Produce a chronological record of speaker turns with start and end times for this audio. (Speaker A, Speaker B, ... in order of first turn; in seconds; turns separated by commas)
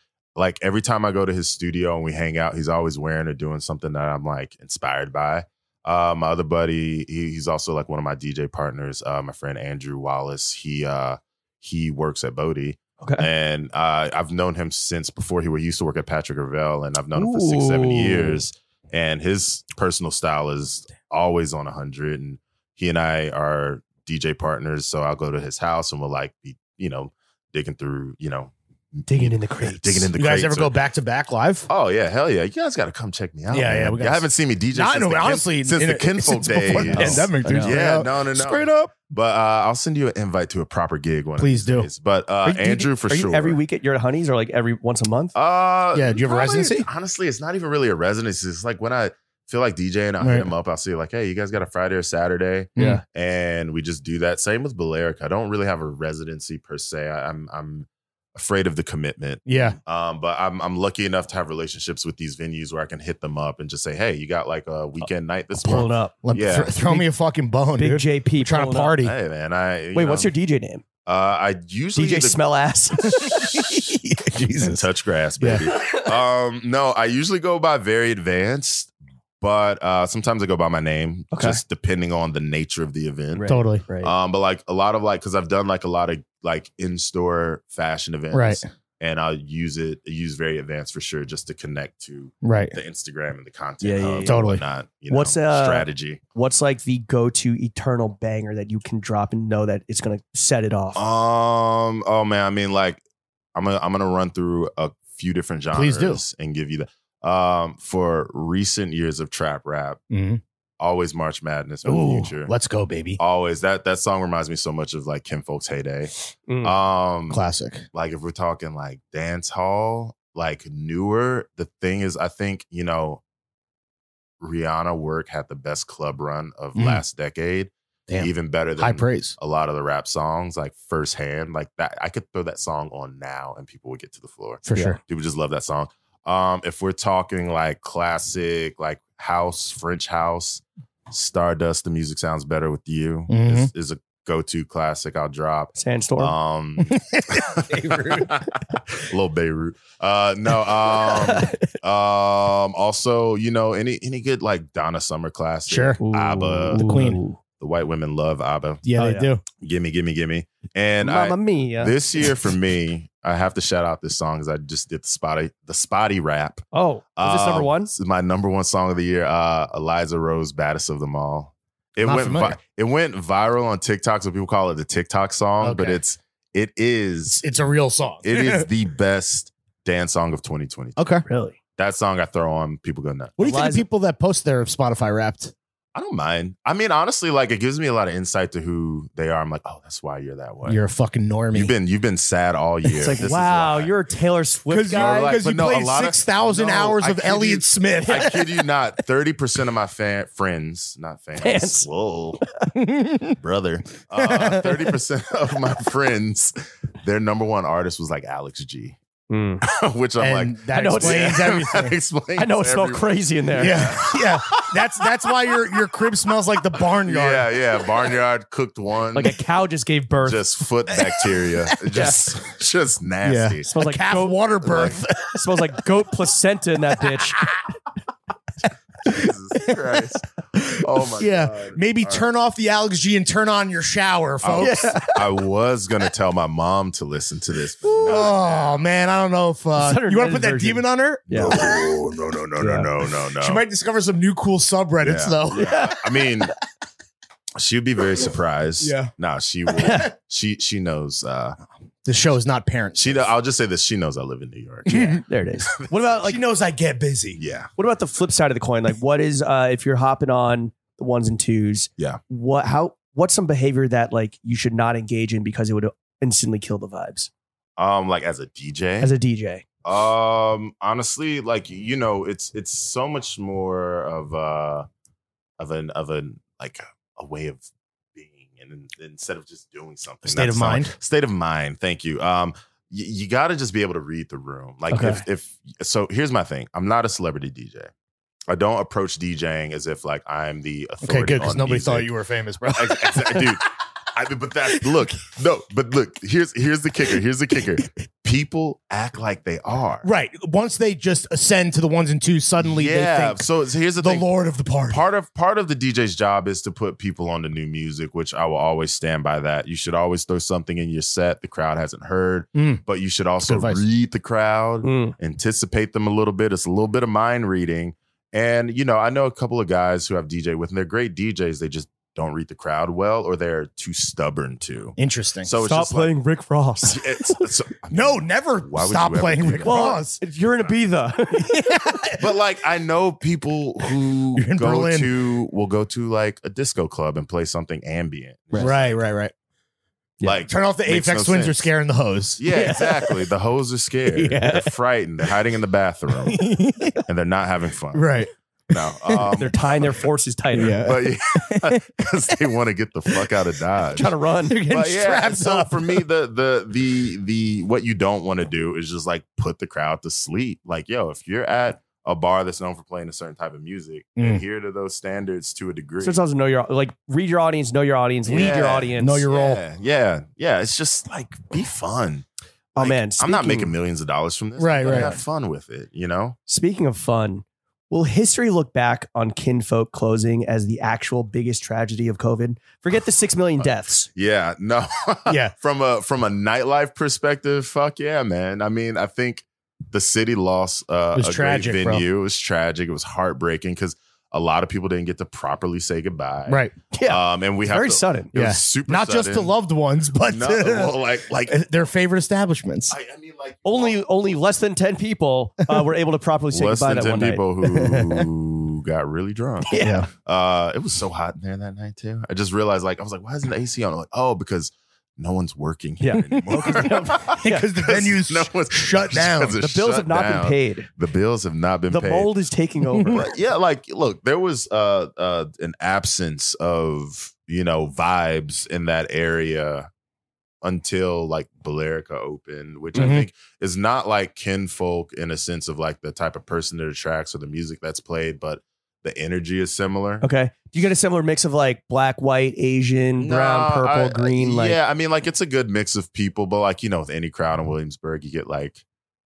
Speaker A: 0.3-30.7, Speaker B: 13.0-13.3, Speaker B: 17.1-18.4, Speaker B: 29.1-30.1, Speaker C: 30.1-31.7, Speaker A: 31.7-43.6, Speaker C: 33.5-38.9, Speaker B: 36.8-37.7, Speaker C: 41.4-41.9, Speaker B: 42.4-45.3, Speaker A: 45.3-66.8, Speaker C: 45.9-46.9, Speaker C: 50.2-50.5, Speaker C: 52.8-53.0, Speaker B: 52.8-53.0, Speaker C: 59.5-59.8, Speaker B: 65.6-66.2, Speaker C: 66.2-69.1, Speaker B: 67.8-68.9, Speaker A: 69.0-70.3, Speaker B: 69.9-70.8, Speaker A: 71.0-72.4, Speaker B: 71.9-73.3, Speaker A: 73.0-74.0, Speaker C: 73.2-74.8, Speaker A: 74.6-96.2, Speaker C: 75.4-75.6, Speaker B: 81.3-81.6, Speaker B: 83.3-84.1, Speaker C: 83.5-83.8, Speaker C: 88.3-88.6, Speaker C: 92.4-92.8, Speaker B: 93.8-94.5, Speaker C: 94.2-94.6, Speaker B: 95.1-101.0, Speaker A: 100.9-103.0, Speaker A: 103.5-110.0, Speaker C: 105.7-106.2, Speaker C: 110.1-110.4, Speaker A: 110.8-112.5, Speaker C: 111.8-113.2, Speaker A: 113.2-123.2, Speaker B: 116.5-116.7, Speaker C: 117.3-117.8, Speaker A: 124.4-158.8, Speaker C: 126.8-127.0, Speaker C: 128.1-129.3, Speaker C: 134.7-135.0, Speaker C: 143.3-143.7, Speaker B: 145.8-146.3, Speaker C: 146.8-148.4, Speaker B: 151.0-151.7, Speaker C: 155.7-156.0, Speaker B: 156.0-157.4, Speaker C: 156.7-157.2, Speaker C: 158.8-159.4, Speaker B: 159.0-159.3, Speaker A: 159.6-166.7, Speaker B: 161.0-162.0, Speaker B: 166.7-167.9, Speaker A: 167.2-177.5, Speaker C: 172.0-172.6, Speaker C: 175.6-176.0, Speaker C: 177.4-178.7, Speaker A: 178.2-181.1, Speaker C: 181.0-181.2, Speaker B: 181.2-181.6, Speaker A: 181.8-183.4, Speaker C: 183.4-185.5, Speaker B: 183.4-183.8, Speaker A: 185.9-190.8, Speaker C: 190.7-191.7, Speaker A: 191.5-193.9, Speaker B: 192.9-195.3, Speaker C: 194.7-198.5, Speaker A: 194.9-202.4, Speaker B: 201.4-201.9, Speaker C: 202.8-203.4, Speaker A: 203.4-209.0, Speaker C: 204.2-205.0, Speaker B: 209.3-209.6, Speaker A: 209.6-215.1, Speaker C: 210.2-211.9, Speaker B: 210.7-211.6, Speaker B: 212.3-213.9, Speaker C: 213.6-218.1, Speaker A: 217.0-219.4, Speaker B: 219.1-220.4, Speaker A: 220.2-223.7, Speaker B: 221.9-222.2, Speaker C: 223.2-225.5, Speaker B: 223.6-224.4, Speaker A: 224.6-225.0, Speaker B: 225.3-227.4, Speaker A: 229.0-232.3, Speaker C: 229.1-235.0, Speaker A: 234.4-238.8, Speaker B: 234.6-235.2, Speaker C: 238.0-242.0, Speaker B: 239.8-241.6, Speaker A: 241.3-243.6, Speaker B: 242.6-242.9, Speaker C: 243.3-246.0, Speaker A: 245.0-246.5, Speaker B: 245.6-245.9, Speaker A: 247.6-251.6, Speaker C: 248.8-249.1, Speaker B: 249.7-250.1, Speaker C: 252.0-253.3, Speaker A: 253.0-255.8, Speaker B: 254.9-256.4, Speaker C: 254.9-255.2, Speaker C: 256.2-257.4, Speaker A: 257.4-257.7, Speaker B: 257.8-267.3, Speaker A: 267.8-269.1, Speaker B: 269.0-269.6, Speaker A: 269.8-274.9, Speaker A: 275.6-287.9, Speaker C: 280.2-280.9, Speaker B: 284.9-285.2, Speaker A: 288.5-292.1, Speaker C: 291.0-293.6, Speaker A: 292.6-300.1, Speaker C: 294.7-295.1, Speaker C: 300.0-303.4, Speaker A: 302.6-304.3, Speaker C: 304.0-305.0, Speaker A: 304.9-326.1, Speaker C: 312.5-312.8, Speaker C: 313.4-313.8, Speaker B: 314.8-315.1, Speaker C: 325.0-325.5, Speaker B: 325.6-327.3, Speaker A: 326.8-330.0, Speaker C: 327.9-330.1, Speaker B: 329.6-331.6, Speaker C: 331.4-332.3, Speaker A: 332.2-338.9, Speaker C: 334.3-335.1, Speaker C: 338.6-339.3, Speaker A: 340.2-341.7, Speaker C: 340.5-343.1, Speaker A: 342.4-346.4, Speaker C: 344.1-344.7, Speaker C: 346.1-347.0, Speaker A: 347.1-348.2, Speaker C: 347.9-348.3, Speaker A: 348.7-349.9, Speaker B: 349.3-350.8, Speaker C: 350.5-351.9, Speaker A: 350.6-354.1, Speaker B: 353.9-354.6, Speaker C: 354.5-356.0, Speaker A: 354.6-366.2, Speaker C: 364.2-364.4, Speaker B: 366.0-369.3, Speaker A: 368.3-376.4, Speaker C: 369.0-369.6, Speaker B: 372.8-373.7, Speaker C: 374.6-375.2, Speaker B: 374.9-375.1, Speaker B: 376.5-384.1, Speaker A: 384.1-399.5, Speaker C: 385.2-385.5, Speaker C: 391.1-392.0, Speaker C: 396.5-396.7, Speaker B: 396.9-398.3, Speaker C: 398.3-402.9, Speaker A: 400.2-401.6, Speaker A: 402.9-404.0, Speaker B: 403.6-408.2, Speaker A: 406.5-422.3, Speaker B: 409.7-410.1, Speaker C: 409.8-410.1, Speaker B: 416.0-417.7, Speaker C: 416.5-419.6, Speaker B: 419.6-420.9, Speaker B: 421.9-423.3, Speaker C: 423.0-423.2, Speaker A: 423.1-429.9, Speaker A: 430.6-440.2, Speaker C: 432.9-433.3, Speaker B: 440.2-444.8, Speaker A: 443.2-448.8